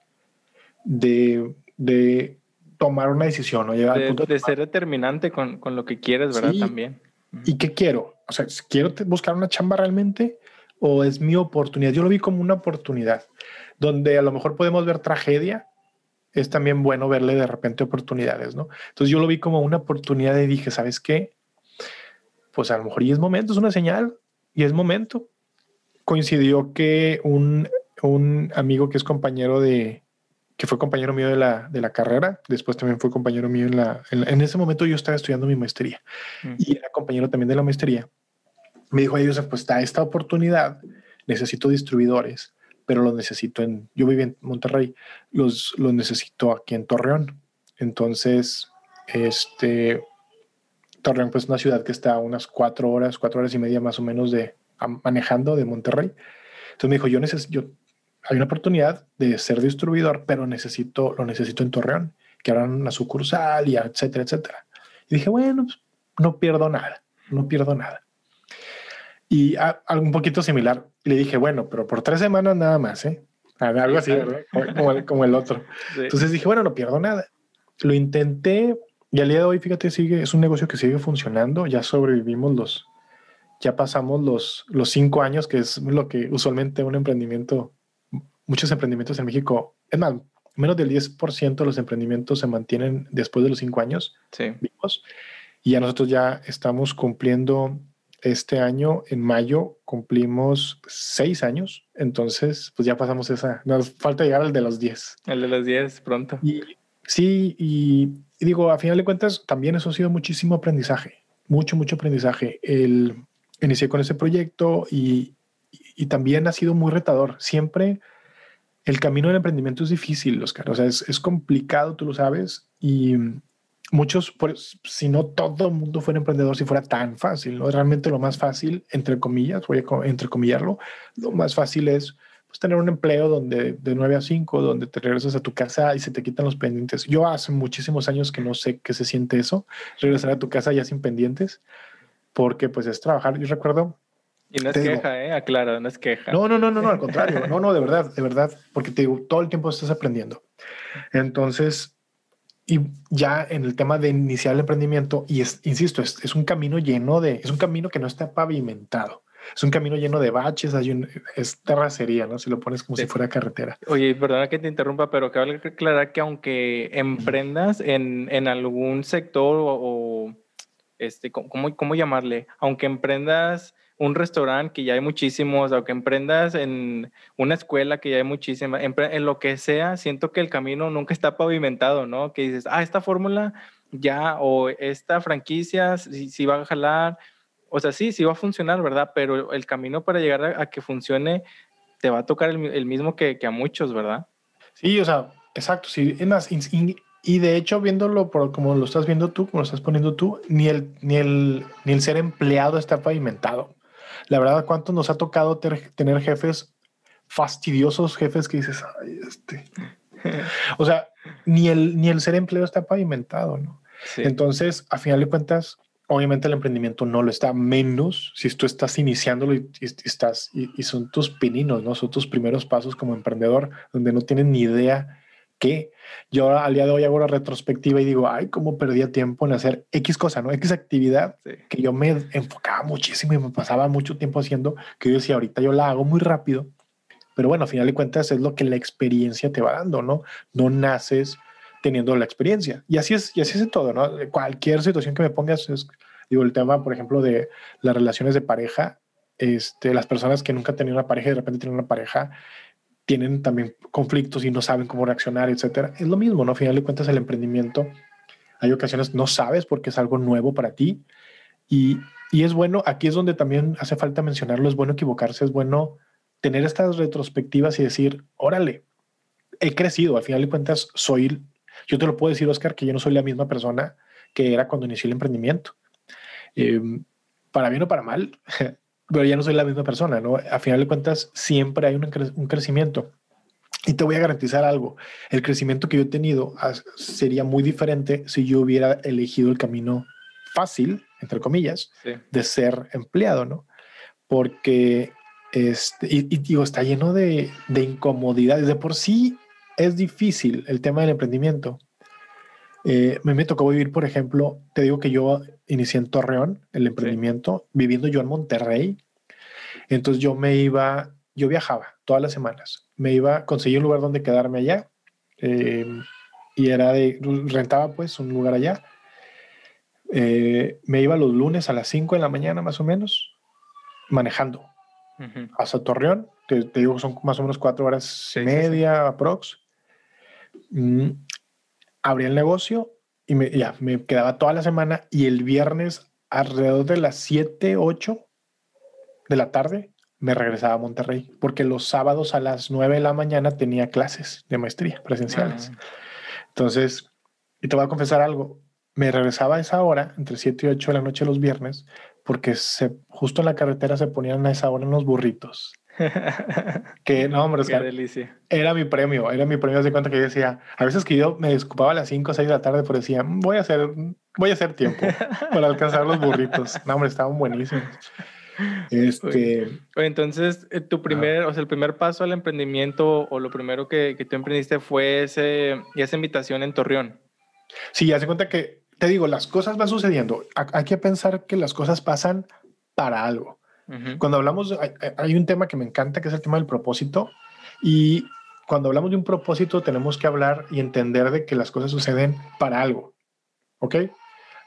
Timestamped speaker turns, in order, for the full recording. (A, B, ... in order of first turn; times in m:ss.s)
0:00.8-0:04.6 A
0:03.9-0:07.5 B
0:06.3-0:06.7 A
0:07.4-0:13.3 A
0:13.8-0:15.7 A
0:16.3-0:21.3 A
0:22.5-0:25.3 A
0:26.1-0:30.0 A
0:30.6-0:36.0 A
0:36.6-0:38.1 A
0:38.9-0:50.0 A
0:51.0-0:56.2 A
0:56.8-0:57.7 A
0:58.3-1:08.0 A
1:09.3-1:17.3 A
1:13.9-1:14.9 B
1:15.9-1:16.2 B
1:17.8-1:22.9 A
1:23.6-1:27.8 A
1:28.5-1:35.0 A
1:34.3-1:34.6 B
1:35.6-1:45.2 A
1:45.3-1:46.4 B
1:46.4-1:55.4 A
1:56.0-1:58.0 A
1:58.9-2:03.4 A
2:03.9-2:21.6 A
2:22.4-2:24.0 A
2:24.5-2:27.5 B
2:24.7-2:25.0 A
2:26.3-2:30.4 A
2:31.1-2:31.9 A
2:32.7-2:43.8 A
2:43.8-2:50.4 B
2:51.0-3:07.2 B
3:07.7-3:11.4 B
3:12.0-3:14.3 B
3:14.8-3:23.8 A
3:24.3-3:26.7 A
3:27.3-3:29.7 A
3:30.2-3:30.5 B
3:30.8-3:56.7 A
3:34.1-3:34.3 B
3:57.4-4:12.4 A
4:13.1-4:17.9 A
4:18.6-4:21.0 A
4:21.7-4:28.8 A
4:29.6-4:35.8 A
4:36.6-4:43.1 A
4:43.9-4:53.7 A
4:54.3-5:01.8 A
5:02.8-5:09.0 A
5:09.9-5:16.0 A
5:16.6-5:18.8 A
5:20.1-5:23.3 A
5:24.1-5:24.7 A
5:25.2-5:25.5 B
5:25.6-5:29.6 A
5:28.3-5:28.8 B
5:30.7-5:31.2 A
5:32.0-5:38.3 A
5:39.3-5:45.7 A
5:45.3-5:45.8 B
5:46.5-5:47.1 A
5:47.6-5:55.8 A
5:56.0-5:56.9 B
5:57.0-5:57.9 A
5:57.6-5:58.3 B
5:58.5-6:08.0 A
6:04.9-6:06.8 B
6:08.6-6:17.2 B
6:08.9-6:09.8 A
6:17.9-6:23.6 A
6:23.9-6:24.2 B
6:24.2-6:33.1 A
6:33.8-6:34.1 A